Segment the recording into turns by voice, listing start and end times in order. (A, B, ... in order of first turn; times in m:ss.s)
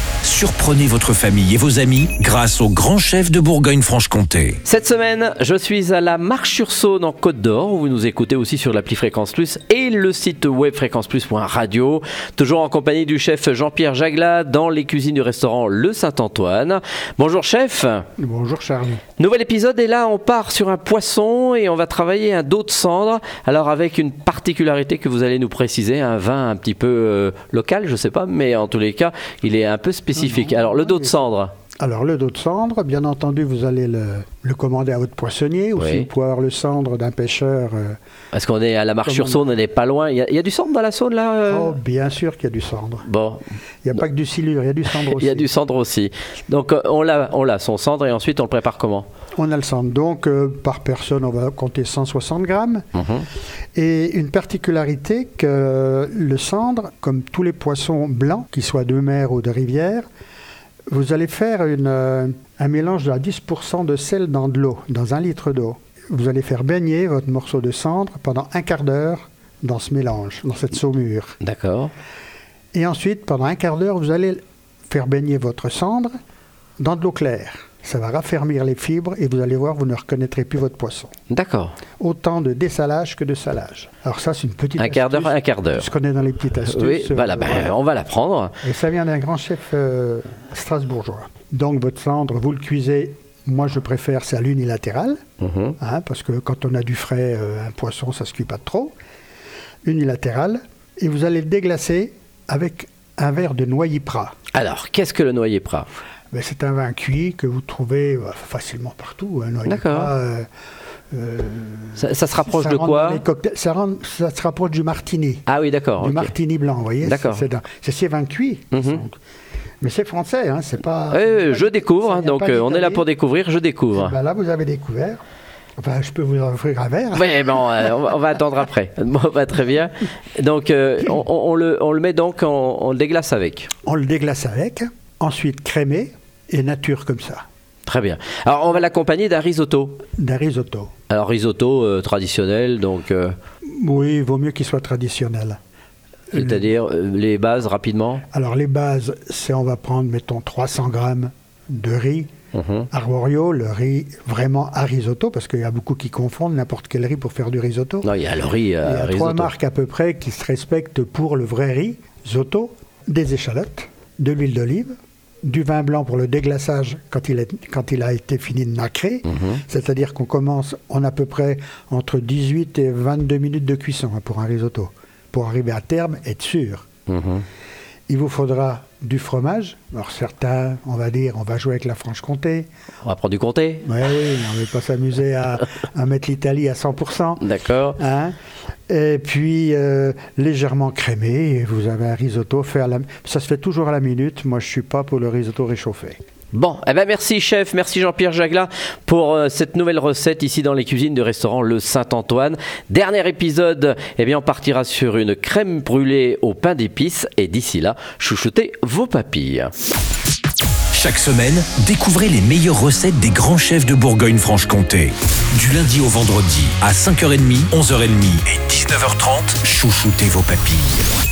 0:00.2-0:04.6 A
0:04.6-0:18.1 B
0:18.2-0:19.0 C
0:19.2-0:31.5 B
0:30.2-0:31.2 C
0:31.8-0:38.0 C
0:35.8-0:36.1 B
0:38.3-0:41.8 B
0:39.0-0:39.5 C
0:41.5-0:43.1 C
0:43.0-0:43.4 B
0:43.8-0:45.5 C
0:45.0-0:49.1 B
0:49.4-0:52.8 C
0:53.0-0:53.3 B
0:53.8-1:00.0 C
1:00.9-1:11.4 C
1:11.4-1:11.9 B
1:12.7-1:16.1 C
1:16.8-1:21.1 C
1:21.3-1:21.8 B
1:22.0-1:27.8 C
1:24.8-1:25.9 B
1:26.6-1:28.6 B
1:28.6-1:35.2 C
1:35.4-1:35.8 B
1:35.8-1:39.0 C
1:39.8-1:44.3 C
1:44.5-1:45.9 B
1:46.3-1:50.5 C
1:49.7-1:50.1 B
1:51.1-1:55.4 C
1:52.0-1:53.2 B
1:55.5-1:56.3 B
1:56.0-1:59.2 C
1:57.0-1:57.5 B
1:58.7-1:59.0 B
1:59.8-2:03.1 C
2:01.1-2:04.1 B
2:03.9-2:05.2 C
2:05.8-2:07.9 C
2:07.1-2:13.7 B
2:13.8-2:17.4 C
2:17.9-2:20.0 B
2:20.2-2:20.9 C
2:21.1-2:23.3 B
2:23.7-2:25.6 C
2:26.3-2:26.7 C
2:26.3-2:28.2 B
2:28.3-2:32.3 C
2:32.5-2:32.9 B
2:32.9-2:38.1 C
2:38.0-2:39.5 B
2:38.8-2:56.9 C
2:57.1-2:57.4 B
2:58.1-3:02.7 C
3:03.0-3:03.9 B
3:03.8-3:07.4 C
3:07.4-3:08.0 B
3:08.0-3:08.4 C
3:08.9-3:16.2 C
3:16.5-3:29.7 B
3:30.9-3:41.1 A